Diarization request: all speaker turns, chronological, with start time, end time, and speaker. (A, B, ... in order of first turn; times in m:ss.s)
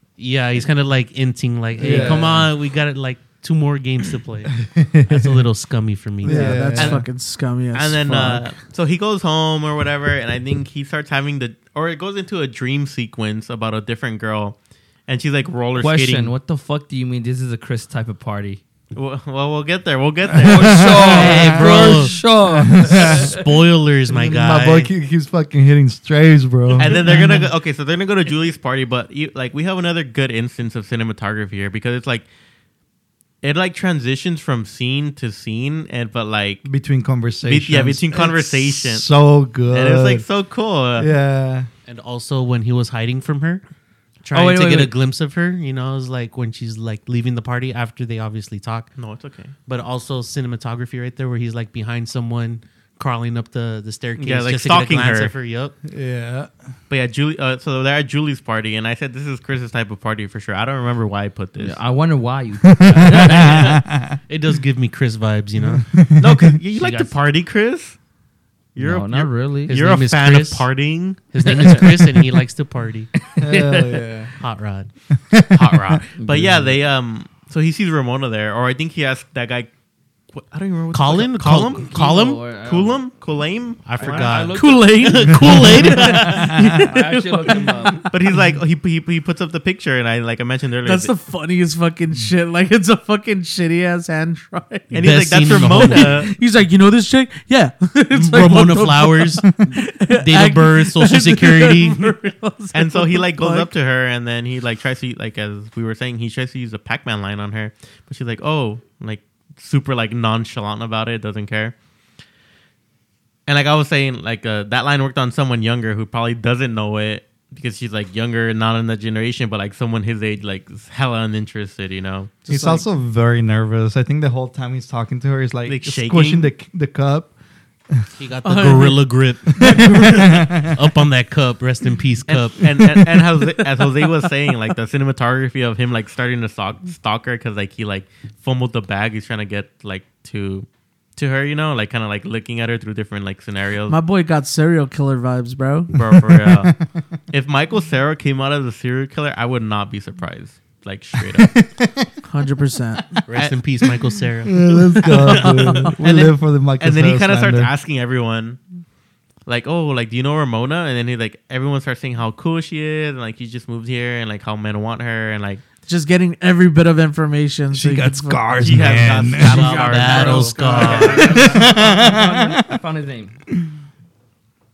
0:00.2-0:06.6 A
0:01.8-0:02.4 B
0:01.8-0:02.2 C
0:04.6-0:05.5 B
0:06.2-0:07.0 B
0:06.2-0:08.5 D
0:06.8-0:07.0 E
0:07.7-0:16.3 E
0:15.8-0:18.6 C
0:18.9-0:22.2 E
0:20.4-0:21.2 B
0:20.4-0:23.5 C
0:21.1-0:22.2 A
0:22.5-0:23.3 B
0:22.7-0:24.9 A
0:24.1-0:27.4 B
0:26.8-0:32.3 E
0:26.8-0:27.4 C
0:33.4-0:36.6 E
0:36.6-0:40.2 B
0:37.4-0:39.1 E
0:39.7-0:41.1 E
0:41.0-0:41.7 B
0:41.9-0:43.6 A
0:44.2-0:48.9 A
0:44.3-0:44.9 C
0:49.0-0:49.5 E
0:49.7-0:55.7 A
0:54.2-0:55.3 E
0:55.9-0:56.5 B
0:56.9-1:01.8 E
1:01.6-1:03.7 C
1:02.6-1:04.2 B
1:03.1-1:07.1 A
1:05.6-1:06.6 B
1:06.2-1:08.0 E
1:08.8-1:11.8 E
1:08.8-1:09.7 C
1:09.7-1:13.1 A
1:11.4-1:12.2 C
1:13.2-1:14.0 C
1:13.4-1:14.3 B
1:14.4-1:14.9 A
1:15.1-1:16.0 B
1:15.5-1:19.7 E
1:16.2-1:16.8 C
1:20.3-1:24.4 E
1:20.9-1:22.4 A
1:21.8-1:23.0 C
1:23.8-1:26.7 A
1:24.0-1:25.0 C
1:24.5-1:28.1 D
1:25.5-1:25.9 E
1:25.8-1:28.1 C
1:28.0-1:31.1 E
1:30.8-1:35.0 D
1:34.9-1:36.3 E
1:34.9-1:36.3 A
1:35.6-1:43.7 D
1:38.1-1:42.1 A
1:42.7-1:51.7 E
1:53.5-2:02.4 E
2:02.4-2:02.8 D
2:02.5-2:07.3 B
2:05.6-2:06.5 E
2:08.2-2:12.9 A
2:08.4-2:09.0 D
2:09.6-2:10.8 B
2:12.3-2:24.0 E
2:12.7-2:13.3 B
2:23.9-2:25.9 D
2:25.9-2:26.8 E
2:26.1-2:27.0 B
2:27.3-2:31.6 E
2:31.2-2:32.1 B
2:32.2-2:33.1 D
2:33.3-2:35.2 A
2:34.4-2:37.7 B
2:35.0-2:35.9 D
2:36.0-2:38.6 E
2:39.4-2:45.6 E
2:45.9-2:51.5 D
2:47.7-2:49.7 B
2:48.6-2:51.3 E
2:49.0-2:51.5 A
2:50.6-2:53.4 C
2:51.2-2:52.8 B